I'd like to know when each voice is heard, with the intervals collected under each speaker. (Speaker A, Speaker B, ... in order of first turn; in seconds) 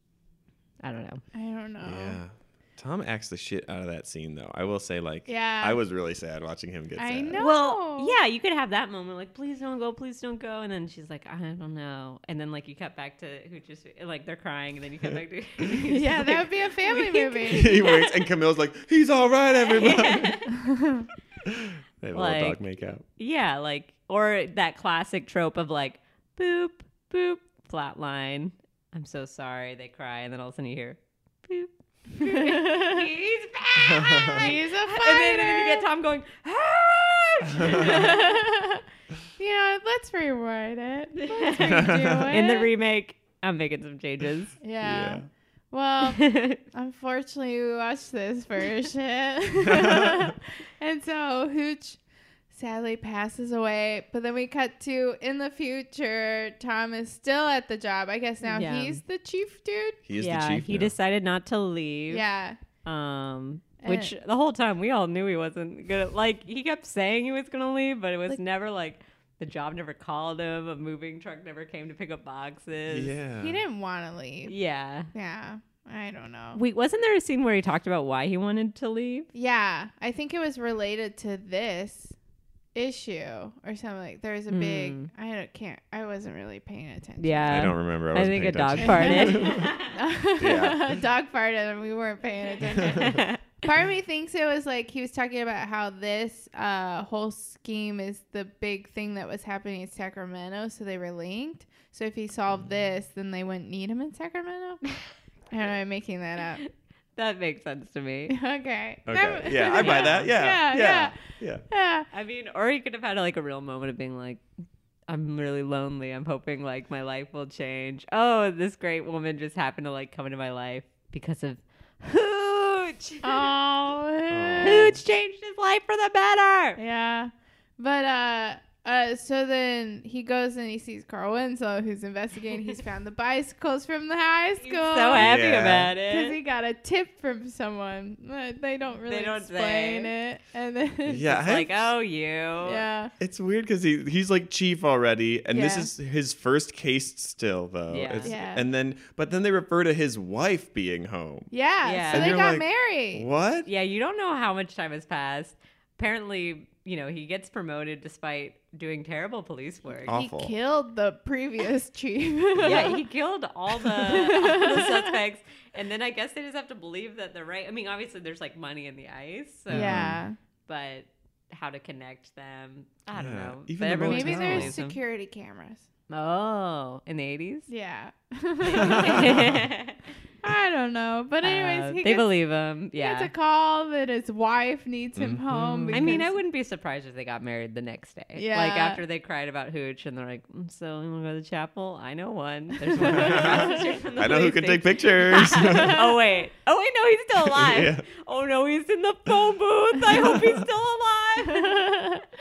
Speaker A: 0.8-1.2, 7.4-18.2, 19.6-20.6, 22.1-22.6, 23.2-38.4, 41.2-44.5, 46.1-46.6, 58.5-59.0, 60.2-62.2, 62.9-73.2, 74.5-75.1, 76.5-79.3, 84.5-85.1, 87.2-89.9, 92.9-93.4, 106.6-108.3, 109.7-110.3, 112.1-114.4, 115.1-123.5, 124.6-126.8, 134.6-136.4, 139.1-140.1, 141.3-142.8, 147.9-148.3, 151.8-152.4, 153.7-160.2, 162.6-170.1, 170.7-175.0, 176.1-177.7, 178.6-180.0, 181.4-183.3, 185.9-201.8
Speaker B: 1.4-2.2, 5.3-5.8, 7.0-8.2, 15.9-17.9, 20.6-21.1, 32.2-33.1, 34.3-35.9, 37.6-38.8, 39.4-42.7, 44.6-52.0, 52.5-60.0, 62.1-62.6, 63.8-64.1, 73.4-74.5, 75.1-76.6, 79.3-82.1, 82.8-87.6, 88.8-104.8, 105.5-106.6, 108.3-112.1, 123.2-124.9, 126.8-135.3, 136.1-141.3, 142.6-143.1, 145.5-145.9, 148.2-148.6, 151.5-153.2, 160.1-163.0, 164.0-165.2, 169.7-170.4, 174.0-175.9, 177.7-179.4, 180.4-182.3, 183.0-186.3, 188.3-189.0, 193.0-194.0, 195.6-196.0, 201.5-202.2
Speaker C: 1.8-7.4, 17.5-20.5, 21.4-23.0, 33.8-34.5, 41.6-42.3, 44.8-45.3, 49.6-50.3, 60.1-60.9, 72.9-73.6, 87.5-89.8, 90.4-91.0, 92.7-93.2, 109.1-111.6, 124.3-125.0, 135.1-135.9, 141.1-141.9, 143.2-151.5, 152.1-153.7, 160.0-160.5, 162.6-162.9, 169.7-170.2, 173.1-174.7, 178.8-179.6, 185.2-186.0, 193.0-196.1, 197.5-198.1, 200.1-200.6